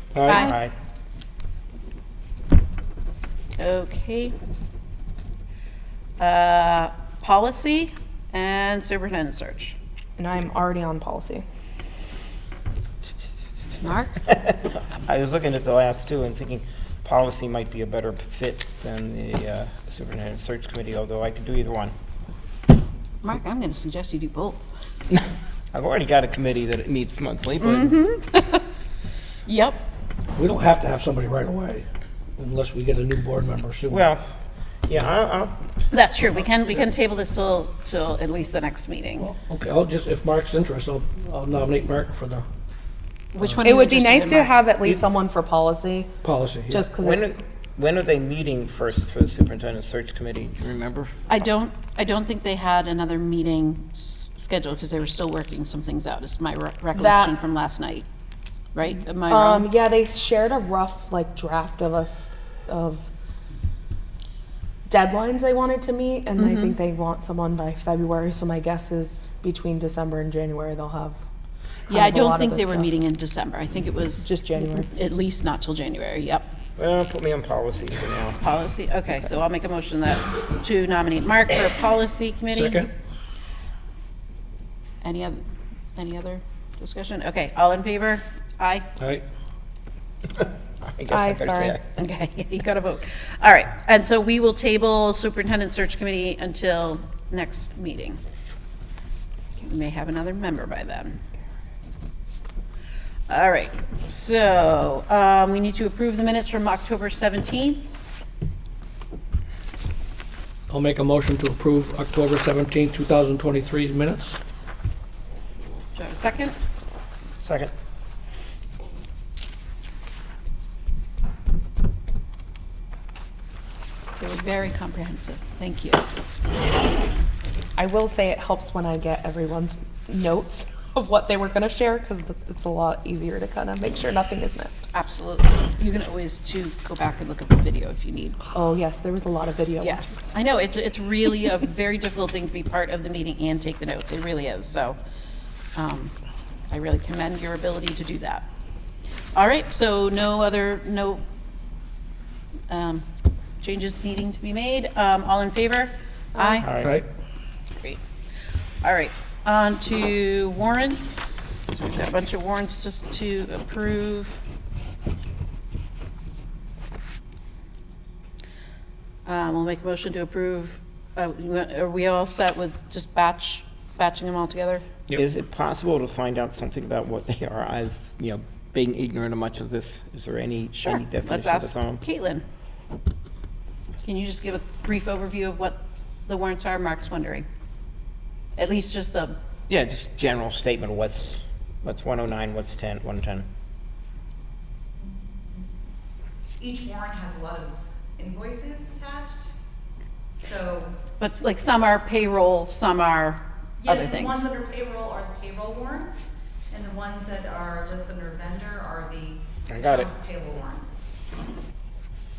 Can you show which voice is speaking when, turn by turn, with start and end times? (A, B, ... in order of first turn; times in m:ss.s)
0:00.1-0:00.4 A
0:00.2-0:00.6 B
0:00.3-0:00.7 C
0:03.6-0:04.3 B
0:06.2-0:09.8 B
0:10.2-0:11.4 D
0:13.8-0:14.2 B
0:14.3-0:21.9 C
0:23.2-0:24.6 B
0:25.7-0:28.0 C
0:27.6-0:28.6 B
0:29.4-0:29.8 B
0:30.3-0:31.8 A
0:32.4-0:34.0 A
0:33.9-0:34.2 C
0:34.8-0:35.6 C
0:35.9-0:39.3 B
0:39.2-0:42.4 A
0:43.3-0:44.6 B
0:43.6-0:46.1 D
0:46.2-0:46.9 A
0:46.7-0:47.3 D
0:47.0-0:51.1 C
0:51.3-0:58.1 B
0:56.9-0:57.3 D
0:58.7-0:59.7 B
0:59.3-1:03.1 D
1:04.9-1:11.2 D
1:06.4-1:06.8 B
1:11.9-1:16.5 B
1:11.9-1:12.9 D
1:14.2-1:14.9 D
1:16.8-1:18.4 C
1:18.4-1:22.9 B
1:22.5-1:22.9 A
1:25.0-1:25.4 B
1:26.0-1:28.8 B
1:29.0-1:29.2 A
1:30.4-1:31.8 C
1:31.1-1:31.8 D
1:32.0-1:38.2 B
1:39.6-1:41.2 B
1:43.3-1:47.9 B
1:50.7-1:54.4 A
1:55.9-1:56.6 B
1:57.4-1:57.7 C
2:04.2-2:06.0 B
2:07.8-2:14.9 D
2:14.9-2:18.4 B
2:18.5-2:20.1 D
2:19.8-2:25.0 B
2:25.7-2:26.1 B
2:26.7-2:28.5 B
2:29.3-2:31.2 B
2:32.7-2:33.0 B
2:33.6-2:36.7 B
2:36.4-2:36.6 D
2:36.6-2:36.9 C
2:38.8-2:44.4 B
2:49.2-2:54.9 B
2:55.1-3:02.0 C
3:00.7-3:02.4 B
3:04.0-3:07.4 B
3:08.6-3:09.4 B
3:09.7-3:13.5 C
3:16.6-3:19.5 E
3:20.4-3:21.0 E
3:21.2-3:24.5 B
3:23.8-3:31.0 E
3:29.7-3:30.1 C